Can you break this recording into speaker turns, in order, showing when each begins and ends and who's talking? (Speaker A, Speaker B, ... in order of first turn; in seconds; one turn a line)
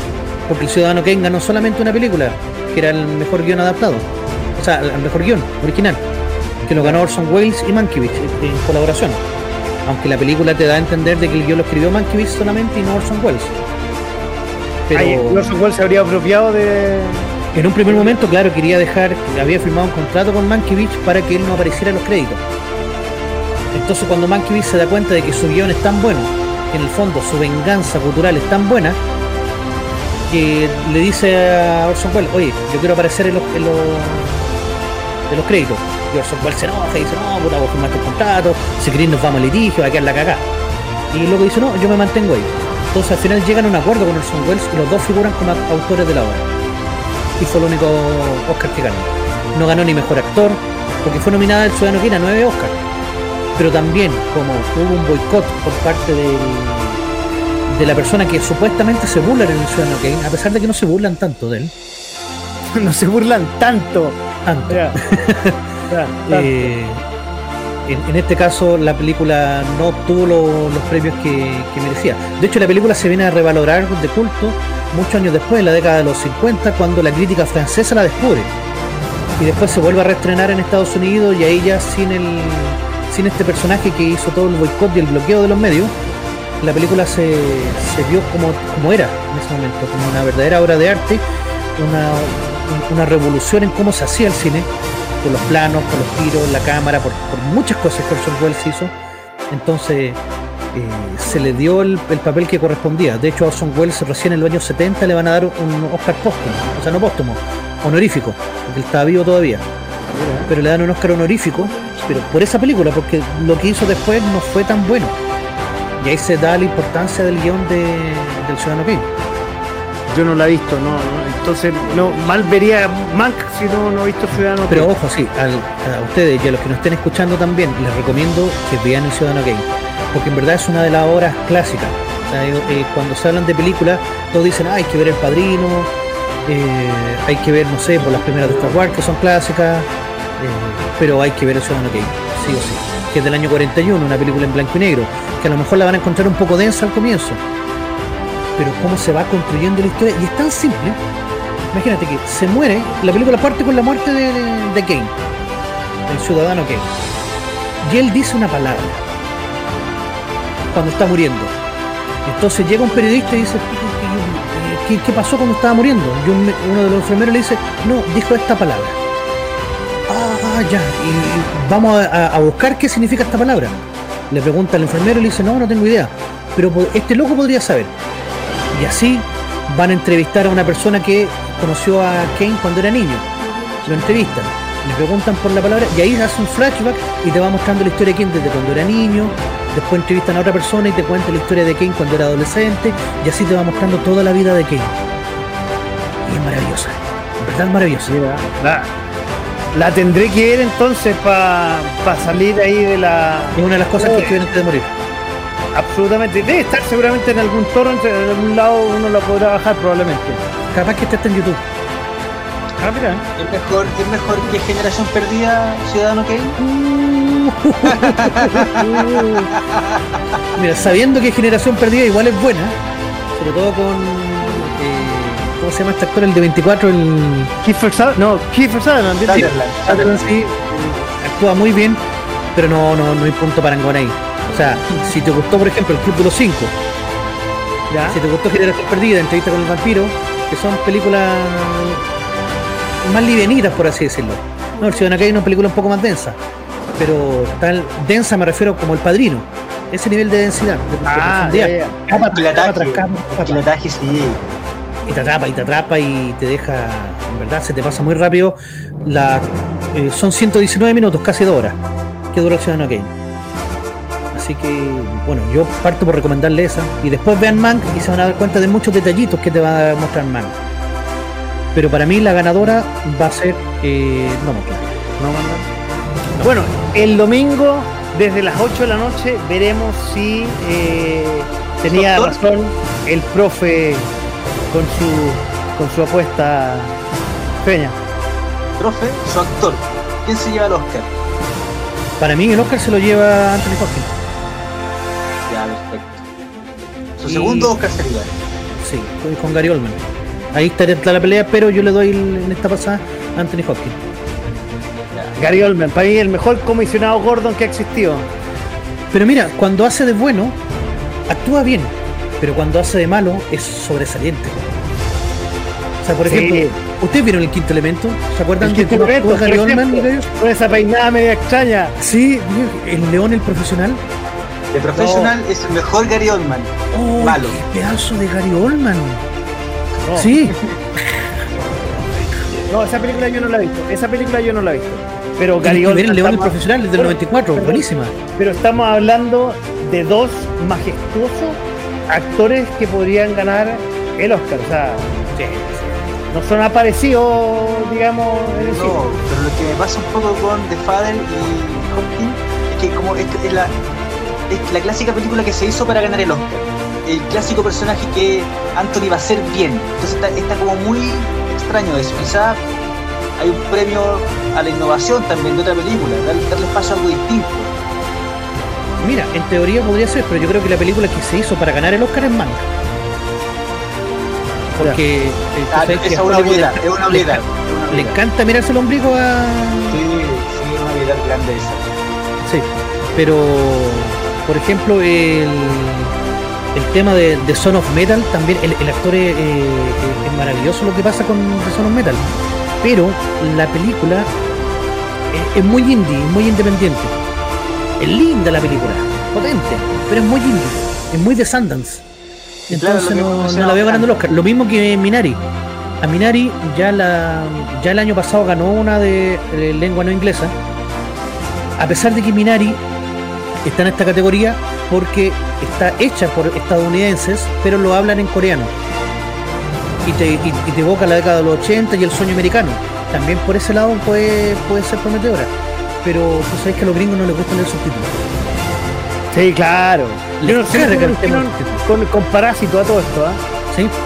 Speaker A: 0.5-4.0
Speaker A: 4.6-6.0
Speaker A: 6.7-9.2
Speaker A: 9.8-13.5
Speaker A: 14.9-15.5
Speaker B: 14.9-18.3
Speaker A: 17.5-22.4
Speaker A: 23.7-29.0
Speaker A: 30.3-34.6
Speaker A: 35.3-40.5
Speaker A: 41.1-46.5
Speaker A: 47.4-52.8
Speaker A: 53.5-57.0
Speaker A: 57.7-61.7
Speaker B: 62.6-65.0
Speaker A: 64.4-65.6
Speaker B: 65.9-66.7
Speaker A: 66.3-67.0
Speaker A: 67.8-78.5
Speaker A: 79.4-85.9
Speaker A: 86.6-91.2
Speaker A: 91.8-94.7
Speaker A: 95.2-98.9
Speaker A: 99.5-100.2
Speaker A: 100.7-109.7
Speaker B: 110.1-110.5
Speaker A: 110.5-115.1
Speaker A: 116.0-119.1
Speaker B: 120.1-124.9
Speaker A: 124.7-135.9
Speaker A: 136.4-147.4
Speaker C: 138.1-138.7
Speaker A: 148.6-151.0
Speaker A: 151.7-155.1
Speaker A: 156.1-156.9
Speaker A: 157.8-159.0
Speaker A: 160.7-161.5
Speaker A: 162.2-169.0
Speaker A: 170.1-177.9
Speaker A: 178.7-183.3
Speaker A: 183.8-194.9
Speaker A: 196.2-198.1
Speaker B: 198.1-198.9
Speaker B: 199.7-204.5
Speaker A: 203.5-204.9
Speaker B: 205.7-210.4
Speaker A: 210.7-211.6
Speaker B: 212.8-213.2
Speaker C: 213.4-216.6
Speaker A: 216.6-219.5
Speaker C: 217.8-220.4
Speaker A: 220.6-222.7
Speaker A: 223.3-227.5
Speaker B: 227.6-229.5
Speaker C: 229.3-230.3
Speaker A: 229.3-232.0
Speaker A: 232.5-236.7
Speaker B: 237.9-238.2
Speaker A: 238.1-242.1
Speaker A: 243.0-246.4
Speaker A: 247.0-253.7
Speaker B: 251.0-252.3
Speaker C: 252.1-254.4
Speaker A: 255.1-261.8
Speaker A: 262.3-263.1
Speaker A: 264.3-270.6
Speaker A: 271.7-274.9
Speaker B: 275.2-275.7
Speaker B: 276.4-284.1
Speaker C: 281.8-282.4
Speaker B: 284.7-286.9
Speaker B: 287.6-288.0
Speaker C: 288.8-291.1
Speaker A: 292.2-294.1
Speaker C: 295.5-296.2
Speaker C: 297.2-298.3
Speaker A: 297.2-297.7
Speaker A: 298.8-300.0
Speaker A: 300.5-304.0
Speaker C: 305.1-305.4
Speaker B: 305.4-308.3
Speaker A: 309.1-310.6
Speaker A: 311.3-314.6
Speaker A: 316.0-320.3
Speaker B: 316.2-316.7
Speaker B: 318.6-321.9
Speaker A: 322.0-324.0
Speaker C: 324.7-327.6
Speaker B: 325.0-325.3
Speaker A: 326.9-329.2
Speaker B: 330.0-330.3
Speaker A: 330.1-332.4
Speaker B: 332.7-337.8
Speaker A: 335.6-338.1
Speaker B: 338.3-345.1
Speaker A: 345.3-346.1
Speaker B: 346.3-349.0
Speaker C: 348.5-353.7
Speaker C: 354.5-362.7
Speaker C: 363.4-367.7
Speaker A: 369.0-372.7
Speaker A: 374.8-380.0
Speaker C: 375.7-378.2
Speaker C: 379.9-381.9
Speaker A: 382.4-386.1
Speaker A: 386.7-392.2
Speaker A: 392.8-394.3
Speaker A: 395.3-397.1
Speaker A: 398.0-402.0
Speaker A: 402.7-405.4
Speaker C: 402.7-404.2
Speaker A: 406.0-410.5
Speaker A: 411.8-412.8
Speaker A: 413.6-418.7
Speaker A: 420.0-425.5
Speaker A: 426.0-428.2
Speaker B: 429.3-433.4
Speaker A: 430.4-431.8